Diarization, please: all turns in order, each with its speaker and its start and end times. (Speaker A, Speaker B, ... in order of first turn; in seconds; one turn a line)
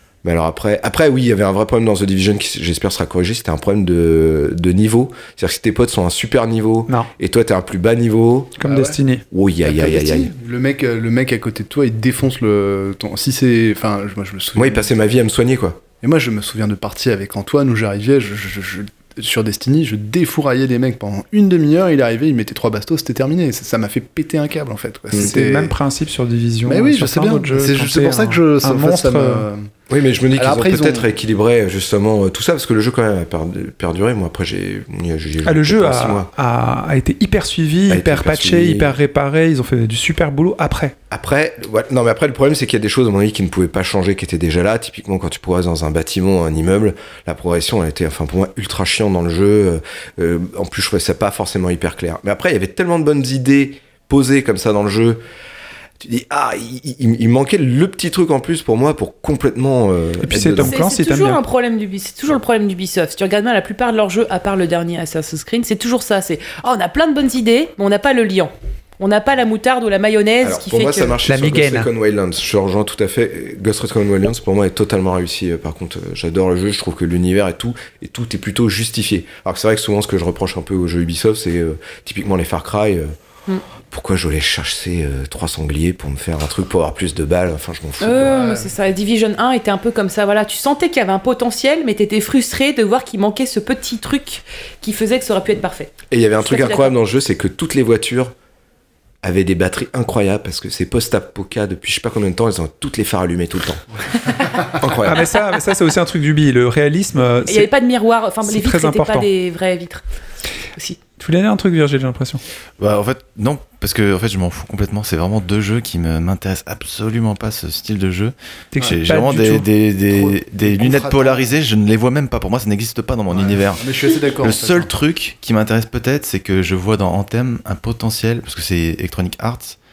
Speaker A: 0.2-8.6
Speaker B: 8.6-9.2
Speaker C: 8.6-9.0
Speaker A: 9.3-10.3
Speaker C: 9.6-14.9
Speaker A: 14.6-15.8
Speaker C: 16.0-25.7
Speaker B: 25.1-29.5
Speaker C: 26.6-29.7
Speaker A: 29.9-36.3
Speaker C: 30.3-31.1
Speaker B: 35.4-40.9
Speaker A: 37.9-39.0
Speaker A: 41.1-55.2
Speaker A: 56.0-60.8
Speaker B: 60.2-61.4
Speaker D: 60.6-71.1
Speaker A: 70.4-83.1
Speaker B: 71.2-71.9
Speaker A: 83.9-88.4
Speaker D: 88.0-96.9
Speaker C: 88.3-88.7
Speaker A: 96.1-98.3
Speaker A: 99.2-103.8
Speaker A: 104.6-105.3
Speaker B: 104.9-107.7
Speaker D: 107.5-110.0
Speaker B: 108.4-109.3
Speaker B: 111.2-112.4
Speaker E: 112.8-129.8
Speaker B: 118.7-119.7
Speaker C: 120.1-121.5
Speaker C: 123.3-124.9